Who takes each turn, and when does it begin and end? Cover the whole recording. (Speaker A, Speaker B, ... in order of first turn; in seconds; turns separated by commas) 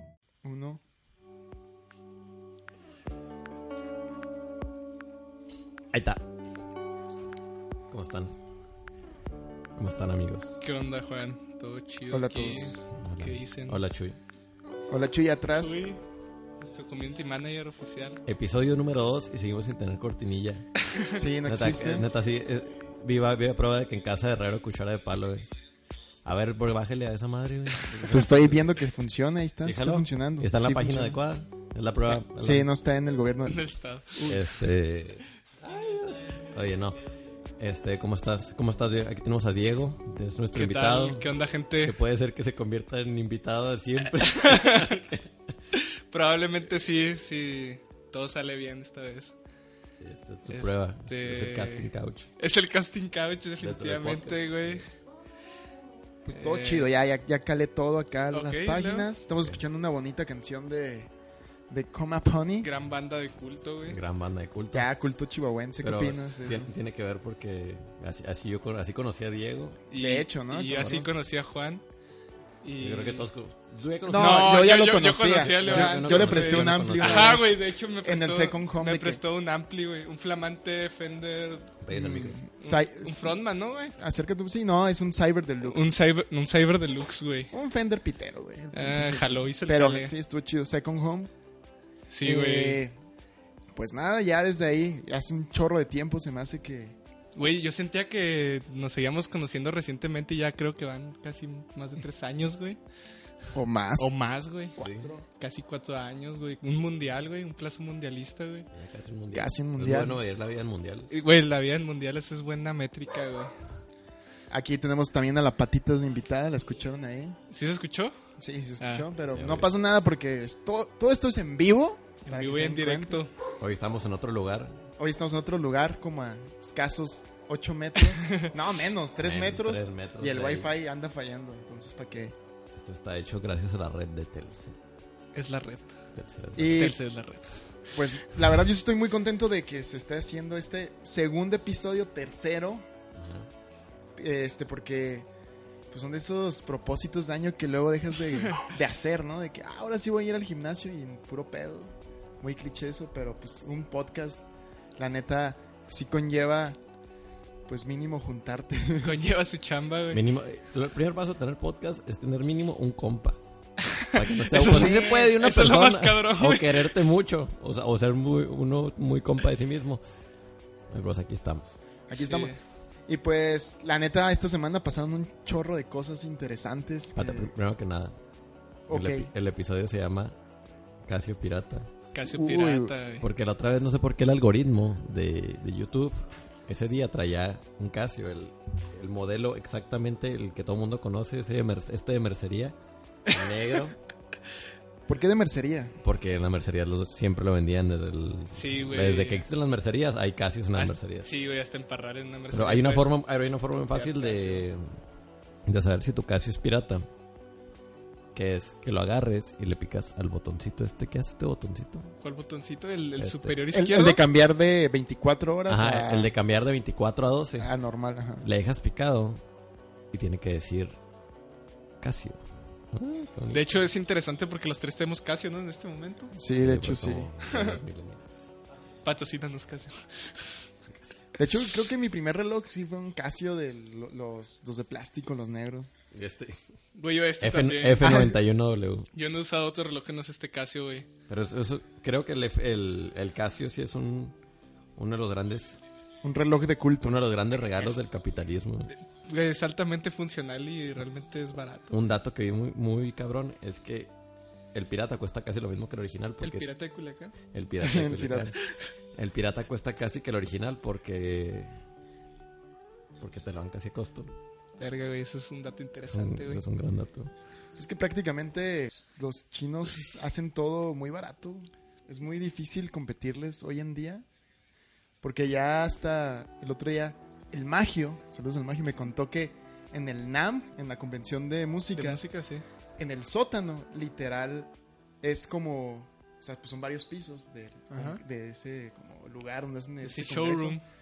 Speaker A: 0.4-0.8, Speaker B: 5.9-6.2, Speaker B: 7.9-8.3, Speaker B: 9.8-10.6, Speaker C: 10.6-13.8, Speaker A: 12.1-12.8, Speaker B: 12.9-14.2, Speaker A: 14.9-15.8, Speaker C: 15.6-16.0, Speaker C: 16.6-18.2, Speaker B: 18.2-20.6, Speaker A: 21.1-22.1, Speaker B: 21.5-25.5, Speaker B: 26.2-28.7, Speaker A: 28.1-31.2, Speaker B: 29.6-32.7, Speaker A: 32.3-33.6, Speaker C: 33.5-34.4, Speaker B: 34.2-37.0, Speaker B: 37.6-41.3, Speaker C: 40.5-42.0, Speaker B: 41.8-45.2, Speaker C: 44.3-45.0, Speaker C: 45.7-49.3, Speaker B: 50.0-52.3, Speaker C: 50.5-54.8, Speaker B: 53.6-54.8, Speaker A: 56.2-61.1, Speaker C: 56.3-56.9, Speaker C: 58.3-59.1, Speaker A: 61.7-62.7, Speaker C: 62.6-64.0, Speaker B: 63.8-64.9, Speaker A: 64.7-66.8, Speaker B: 65.8-69.8, Speaker C: 69.9-71.8, Speaker A: 69.9-71.1, Speaker C: 72.6-73.2, Speaker B: 72.8-74.6, Speaker A: 74.0-79.2, Speaker C: 74.1-81.8, Speaker B: 75.4-77.4, Speaker B: 81.8-82.4, Speaker A: 81.9-83.4, Speaker C: 82.6-83.9, Speaker A: 84.0-86.0, Speaker C: 85.6-87.5, Speaker A: 87.5-91.3, Speaker C: 88.7-90.1, Speaker C: 92.1-92.8, Speaker A: 92.2-92.9, Speaker A: 93.7-97.0, Speaker C: 97.3-102.8, Speaker A: 103.5-104.1, Speaker C: 104.0-104.8, Speaker A: 104.8-105.2, Speaker B: 104.8-105.1, Speaker C: 105.3-108.7, Speaker B: 108.7-111.1, Speaker A: 109.3-110.2, Speaker C: 111.1-113.5, Speaker A: 114.5-117.4, Speaker C: 117.5-118.1, Speaker A: 118.4-123.2, Speaker C: 118.8-119.1, Speaker B: 119.3-119.7, Speaker C: 122.2-123.3, Speaker B: 123.6-124.8, Speaker A: 125.0-132.3, Speaker B: 129.2-130.7, Speaker B: 132.7-134.8, Speaker C: 135.3-135.9, Speaker B: 136.1-136.8, Speaker A: 136.6-137.0, Speaker C: 136.7-137.5, Speaker A: 137.9-142.8, Speaker B: 143.1-143.5, Speaker A: 144.2-145.3, Speaker A: 145.9-154.4, Speaker A: 155.0-156.8, Speaker A: 157.7-159.2, Speaker C: 159.0-160.2, Speaker B: 160.1-163.4, Speaker C: 164.0-166.9, Speaker B: 164.1-170.0, Speaker A: 164.6-165.3, Speaker B: 170.9-171.8, Speaker A: 172.1-172.5, Speaker C: 172.1-172.6, Speaker A: 173.1-177.5, Speaker B: 177.1-178.2, Speaker A: 178.9-179.3, Speaker B: 178.9-180.3, Speaker B: 181.1-181.9, Speaker C: 182.1-183.2, Speaker A: 182.2-182.9, Speaker B: 183.2-192.7, Speaker B: 193.3-193.9, Speaker A: 195.1-195.9, Speaker B: 196.0-201.3, Speaker C: 198.5-199.4, Speaker C: 200.8-203.1, Speaker B: 202.5-204.9, Speaker C: 203.9-204.7, Speaker B: 205.7-207.1, Speaker B: 208.3-212.1, Speaker C: 212.2-214.2, Speaker B: 213.2-213.6, Speaker A: 213.7-216.3, Speaker B: 215.7-217.7, Speaker A: 217.6-218.4, Speaker B: 218.4-219.4, Speaker B: 220.1-221.0, Speaker B: 222.0-222.4, Speaker B: 222.9-223.8, Speaker C: 223.5-226.3, Speaker A: 226.3-227.3, Speaker B: 226.5-228.5, Speaker C: 227.5-227.8, Speaker C: 229.0-230.5, Speaker A: 231.3-235.9, Speaker B: 236.1-236.6, Speaker C: 236.9-238.2, Speaker B: 237.4-239.1, Speaker A: 238.0-238.4, Speaker C: 239.1-241.1, Speaker B: 241.3-244.3, Speaker B: 244.9-245.8, Speaker A: 246.2-247.2, Speaker B: 247.0-248.9, Speaker C: 249.2-252.0, Speaker B: 251.9-254.1, Speaker B: 254.7-256.7, Speaker C: 256.4-257.3, Speaker B: 257.5-258.6, Speaker A: 257.8-258.6, Speaker B: 259.1-261.7, Speaker B: 263.2-264.3, Speaker C: 264.8-266.6, Speaker B: 266.0-267.3, Speaker A: 267.8-274.2, Speaker A: 275.2-282.2, Speaker C: 281.9-282.6, Speaker A: 283.0-284.7, Speaker A: 285.2-290.8, Speaker C: 287.9-288.2, Speaker C: 290.0-290.8